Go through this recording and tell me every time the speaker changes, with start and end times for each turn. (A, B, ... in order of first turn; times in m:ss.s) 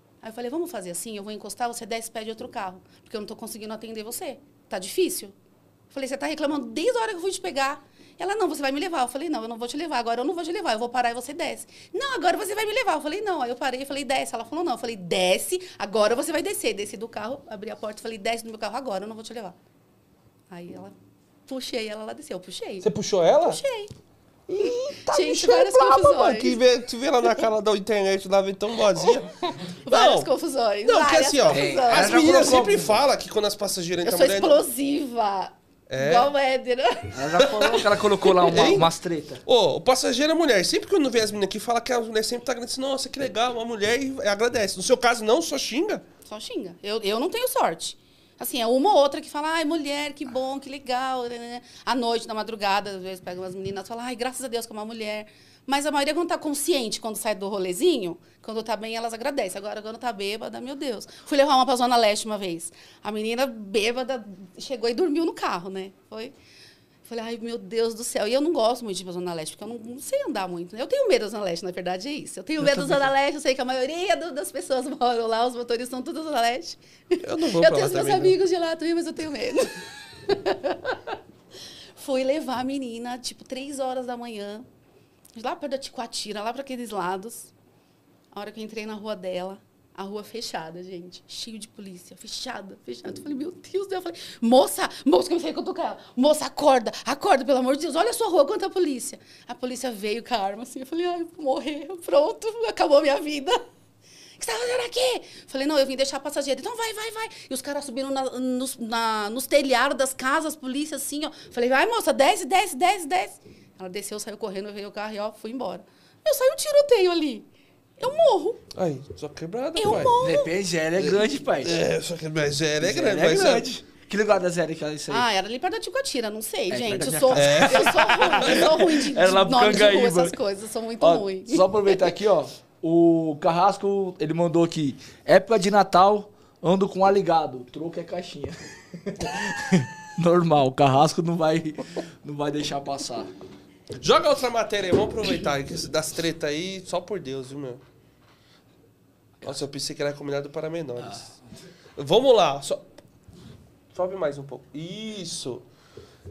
0:00.2-0:05.3 A
0:05.9-0:19.6 A
0:20.5-0:20.9 A
0:21.5-0:23.9 A
0:22.8-0:23.6 B
0:24.5-0:29.3 B
0:24.6-0:26.6 A
0:29.7-0:32.5 A
0:29.9-0:30.3 B
0:30.8-0:34.6 B
0:31.5-0:33.0 C
0:34.0-0:38.5 A
0:35.9-0:36.3 B
0:37.1-0:39.4 C
0:38.4-0:38.9 B
0:39.4-0:46.0 B
0:46.2-1:06.3 A
1:07.0-1:21.2 A
1:17.2-1:18.4 B
1:22.0-1:24.6 A
1:25.3-1:27.5 A
1:28.3-1:43.6 A
1:44.4-1:57.4 A
1:58.0-1:58.6 A
1:58.7-2:00.1 B
1:59.8-2:00.5 A
2:00.2-2:01.8 C
2:01.0-2:03.7 B
2:02.8-2:05.3 C
2:05.1-2:12.1 A
2:06.7-2:10.4 C
2:07.3-2:08.5 B
2:11.0-2:23.3 C
2:23.9-2:27.8 B
2:29.4-2:31.3 B
2:32.0-2:32.8 B
2:33.9-2:35.6 B